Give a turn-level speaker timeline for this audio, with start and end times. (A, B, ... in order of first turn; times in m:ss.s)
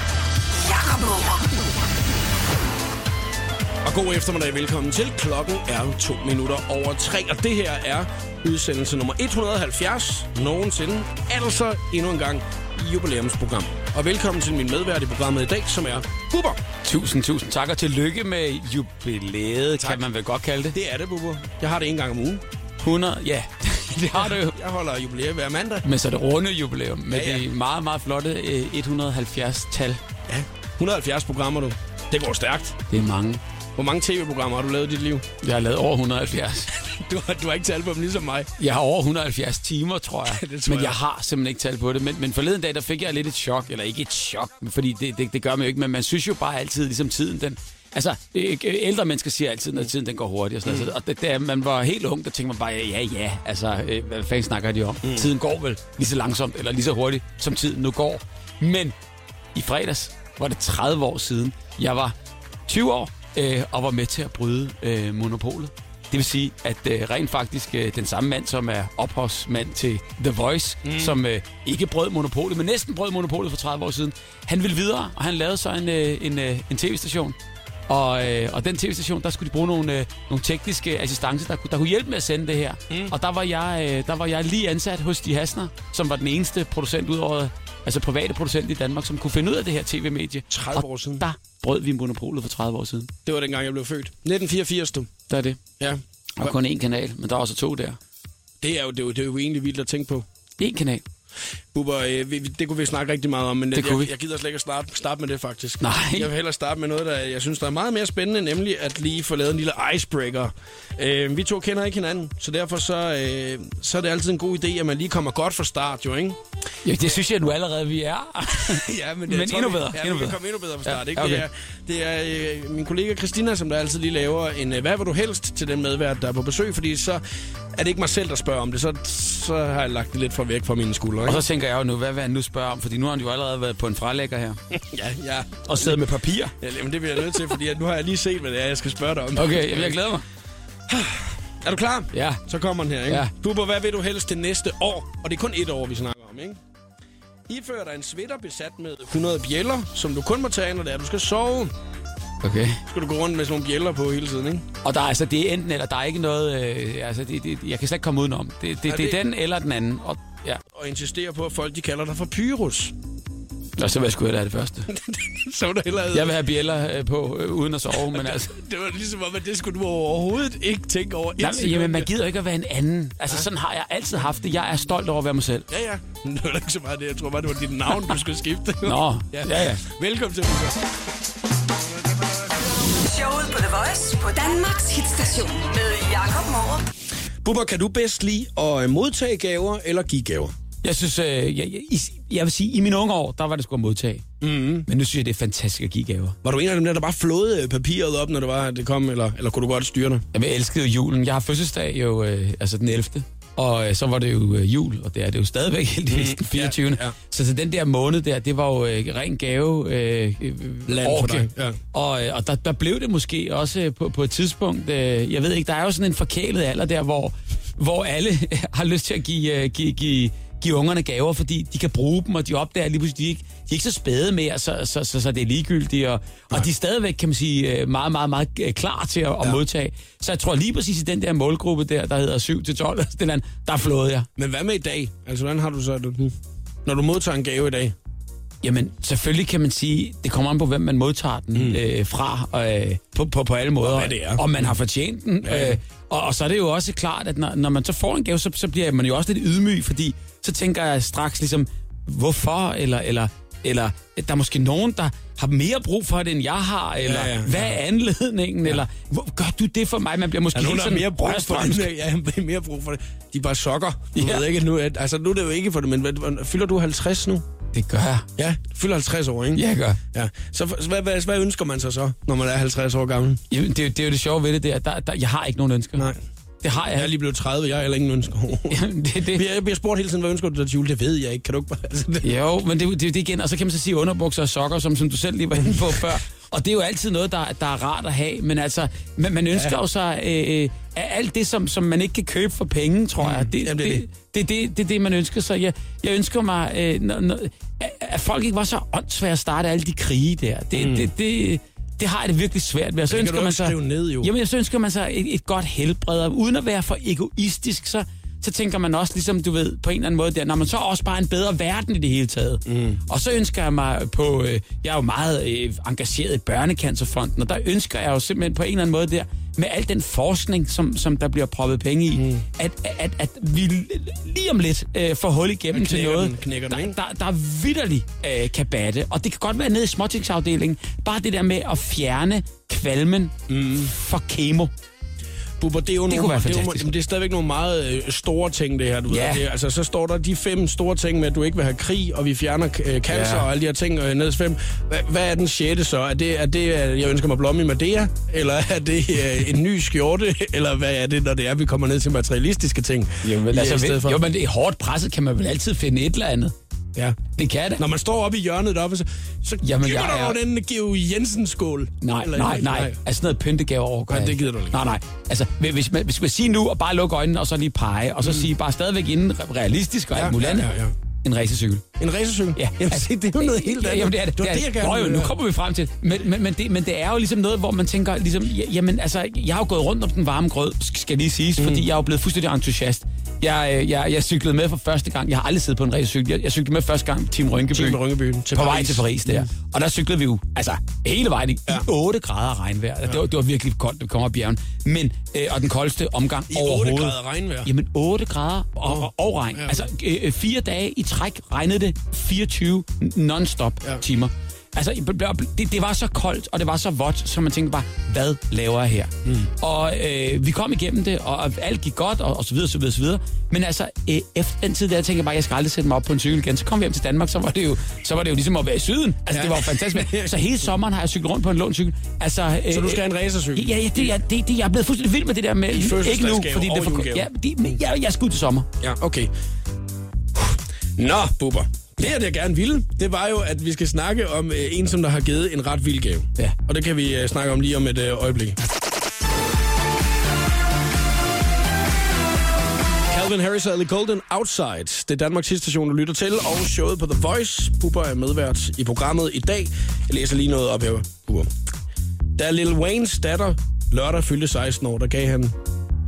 0:00.5-0:01.5 A
0:03.8-0:16.6 B
0:16.8-0:20.8 C
0:19.8-0:20.0 B
0:20.7-0:22.4 B
0:22.8-0:24.6 C
0:24.1-0:25.8 B
0:25.8-0:30.0 C
0:27.1-0:27.5 B
0:30.3-0:32.8 B
0:32.9-0:33.4 C
0:33.8-0:35.3 B
0:35.4-0:36.7 C
0:36.8-0:38.5 B
0:38.6-0:59.0 C
0:40.3-0:41.0 B
0:50.6-0:50.9 B
0:55.0-0:55.3 B
0:59.6-1:02.2 C
1:02.7-1:17.4 C
1:10.8-1:11.2 B
1:17.9-1:33.1 C
1:30.5-1:31.2 B
1:33.3-1:35.1 B
1:35.3-1:35.6 C
1:35.8-1:36.5 B
1:36.4-1:38.0 C
1:38.6-1:40.2 B
1:40.6-1:41.0 C
1:41.7-1:56.4 B
1:43.8-1:44.1 C
1:45.8-1:46.3 C
1:56.8-2:01.5 C
1:58.6-2:07.2 B
2:07.8-2:11.4 B
2:11.2-2:14.6 C
2:14.7-2:20.0 B
2:15.7-2:16.5 C
2:19.4-2:20.2 C
2:20.9-2:26.6 B
2:22.1-2:22.4 C
2:27.5-2:31.7 B
2:32.4-2:32.8 C
2:32.9-2:34.7 B
2:34.8-2:40.6 C
2:38.9-2:39.2 B
2:40.7-2:42.9 B
2:43.8-2:44.9 C
2:44.9-2:46.4 B
2:46.1-2:48.6 C
2:48.0-2:52.1 B
2:51.4-2:55.7 C
2:55.7-3:00.8 B
2:58.8-2:59.8 C
3:02.9-3:06.8 A
3:07.4-3:10.5 B
3:10.8-3:14.2 C
3:14.4-3:14.9 B
3:14.9-3:16.4 C
3:16.4-3:20.2 B
3:20.3-3:54.3 C
3:26.1-3:27.2 B
3:30.9-3:31.8 B
3:54.4-3:56.3 B
3:56.8-3:58.0 B
3:58.6-4:21.9 C
4:01.5-4:01.8 B
4:03.8-4:04.7 B
4:05.4-4:05.8 B
4:17.0-4:17.8 B
4:20.5-4:27.4 B
4:24.2-4:24.5 C
4:27.7-4:28.3 C
4:28.4-4:33.4 B
4:29.5-4:30.0 C
4:33.5-4:36.1 C
4:36.6-4:37.1 C
4:36.9-4:38.8 B
4:38.7-4:39.4 C
4:39.3-4:42.3 B
4:42.2-5:34.7 C
4:45.7-4:46.0 B
4:53.2-4:54.1 B
5:00.8-5:01.1 B
5:03.1-5:04.3 B
5:12.7-5:13.0 B
5:22.2-5:22.4 B
5:25.7-5:27.0 B
5:33.5-5:33.9 B
5:35.6-5:54.2 B
5:36.1-5:36.9 C
5:39.1-5:39.4 C
5:43.1-5:43.5 C
5:53.2-5:56.5 C
5:57.0-5:57.2 B
5:57.4-5:57.8 C
5:57.8-6:03.0 B
5:59.6-6:00.4 C
6:02.0-6:10.7 C
6:04.1-6:04.8 B
6:08.2-6:08.5 B
6:10.1-6:11.0 B
6:11.2-6:11.8 C
6:12.0-6:15.4 B
6:12.6-6:28.0 C
6:21.6-6:21.9 B
6:27.7-6:29.5 B
6:28.5-7:08.7 C
6:36.5-6:37.7 B
6:38.8-6:39.9 B
6:59.3-7:00.6 B
7:02.7-7:04.2 B
7:05.7-7:07.3 B
7:08.8-7:09.3 B
7:10.4-7:18.6 B
7:23.1-7:31.5 B
7:32.4-7:35.6 B